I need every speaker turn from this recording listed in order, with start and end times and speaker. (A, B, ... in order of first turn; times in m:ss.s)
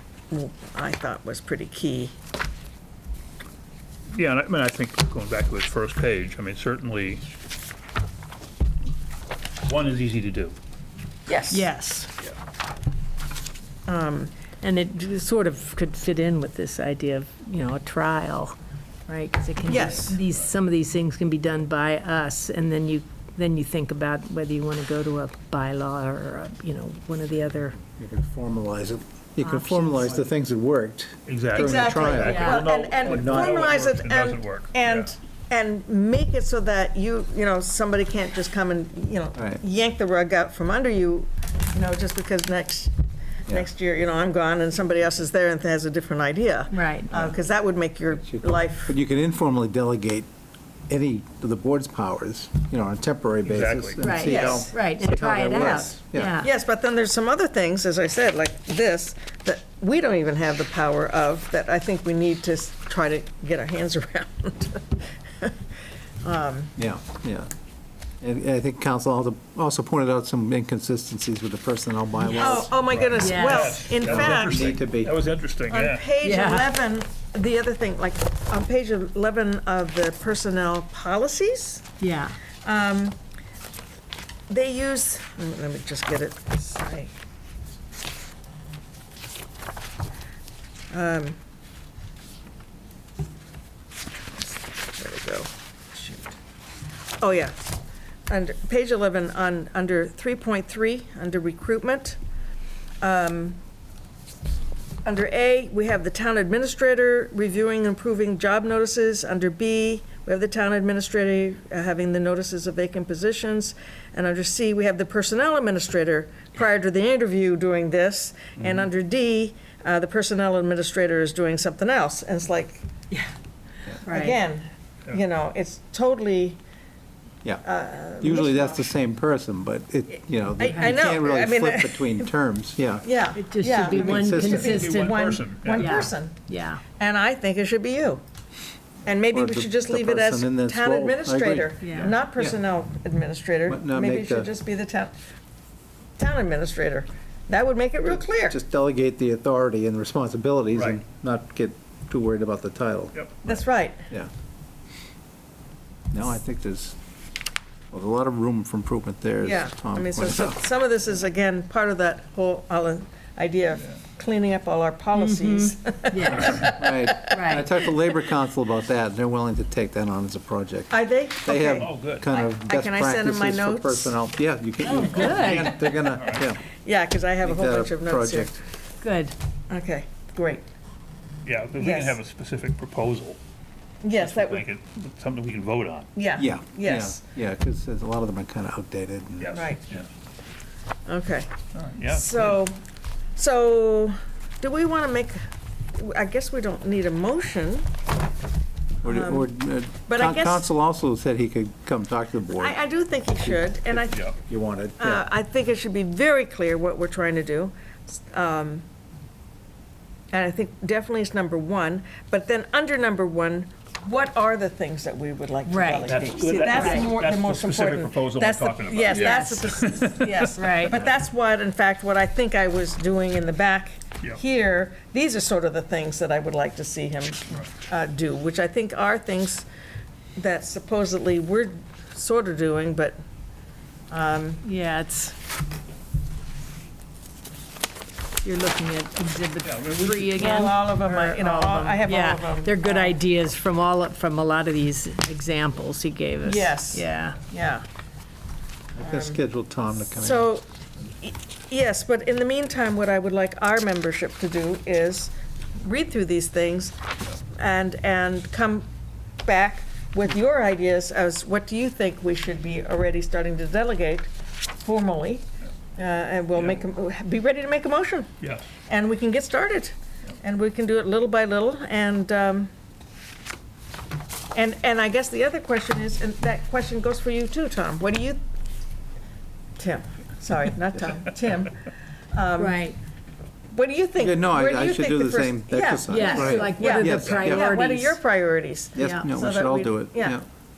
0:00.3-0:02.1 A
0:04.1-0:07.2 B
0:09.6-0:10.6 B
0:11.3-0:11.7 A
0:11.5-0:12.1 C
0:13.9-0:14.3 A
0:14.6-0:18.6 C
0:19.1-0:27.8 C
0:19.6-0:20.2 A
0:27.8-0:33.6 D
0:29.4-0:30.2 C
0:31.2-0:35.1 B
0:31.5-0:42.9 A
0:32.2-0:32.6 C
0:43.5-0:48.9 A
0:46.7-0:47.1 C
0:47.1-0:47.4 D
0:48.1-0:50.3 D
0:50.9-0:56.4 D
0:53.4-0:54.0 B
0:54.0-0:56.5 C
0:54.2-0:54.8 A
0:56.4-1:05.6 A
1:06.2-1:06.7 A
1:06.8-1:07.5 D
1:08.2-1:13.0 D
1:12.3-1:14.8 A
1:12.7-1:16.1 B
1:13.2-1:13.9 C
1:14.0-1:15.2 D
1:15.7-1:21.9 A
1:16.2-1:16.7 C
1:22.0-1:22.3 C
1:22.6-1:23.2 A
1:24.5-1:27.1 A
1:30.9-1:31.4 A
1:34.3-1:36.4 A
1:37.2-1:37.6 A
1:38.3-1:42.2 A
1:43.0-1:43.6 A
1:45.0-2:02.8 A
2:04.0-2:04.4 C
2:04.0-2:06.6 A
2:07.6-2:08.8 A
2:08.2-2:13.0 D
2:10.6-2:12.3 A
2:10.6-2:11.0 C
2:13.0-2:16.4 A
2:13.3-2:16.8 C
2:13.8-2:14.8 D
2:14.6-2:16.0 B
2:17.0-2:18.2 A
2:19.0-2:25.1 A
2:19.3-2:22.6 D
2:21.8-2:22.1 C
2:23.7-2:24.5 D
2:26.2-2:28.6 A
2:28.4-2:33.6 D
2:30.7-2:31.0 B
2:33.1-2:33.4 B
2:33.4-2:34.1 A
2:36.1-2:37.0 D
2:37.9-2:40.6 D
2:39.4-2:47.4 A
2:45.1-2:46.7 C
2:46.5-2:56.6 D
2:47.2-2:47.7 C
2:50.9-2:54.2 A
2:51.8-2:52.3 B
2:54.8-2:55.9 C
2:55.3-2:56.4 B
2:56.8-2:58.6 A
2:57.4-2:58.6 D
2:59.0-2:59.3 C
2:59.7-3:00.6 A
3:01.4-3:03.4 B
3:01.8-3:02.2 A
3:04.0-3:04.6 A
3:04.2-3:06.1 B
3:06.1-3:07.2 A
3:06.4-3:09.5 D
3:09.4-3:10.0 B
3:09.5-3:09.9 A
3:11.0-3:11.5 A
3:11.7-3:12.6 B
3:12.1-3:12.8 A
3:13.4-3:15.4 A
3:15.9-3:17.9 A
3:19.0-3:22.8 D
3:19.0-3:19.5 A
3:20.1-3:20.7 A
3:22.5-3:24.3 A
3:23.4-3:25.2 D
3:25.0-3:28.8 A
3:30.3-3:49.7 A
3:35.6-3:36.1 C
3:36.1-3:41.1 B
3:36.7-3:37.1 C
3:39.1-3:39.6 C
3:40.2-3:41.0 C
3:50.4-3:53.2 A
3:54.1-3:54.6 A
3:54.6-3:55.4 C
3:58.4-4:07.4 C
3:59.6-4:00.6 B
4:00.3-4:03.2 A
4:06.4-4:07.8 A
4:08.9-4:10.5 D
4:09.0-4:09.4 A
4:10.0-4:10.6 A
4:11.2-4:18.8 A
4:19.4-4:24.3 A
4:24.8-4:25.4 A
4:26.0-4:28.3 A
4:28.4-4:28.7 B
4:28.8-4:32.7 A
4:34.5-4:38.4 A
4:39.8-4:42.8 A
4:42.6-4:43.0 C
4:43.7-4:50.4 A
4:44.2-4:47.7 D
4:46.0-4:48.2 C
4:49.0-4:50.4 D
4:49.0-4:49.3 C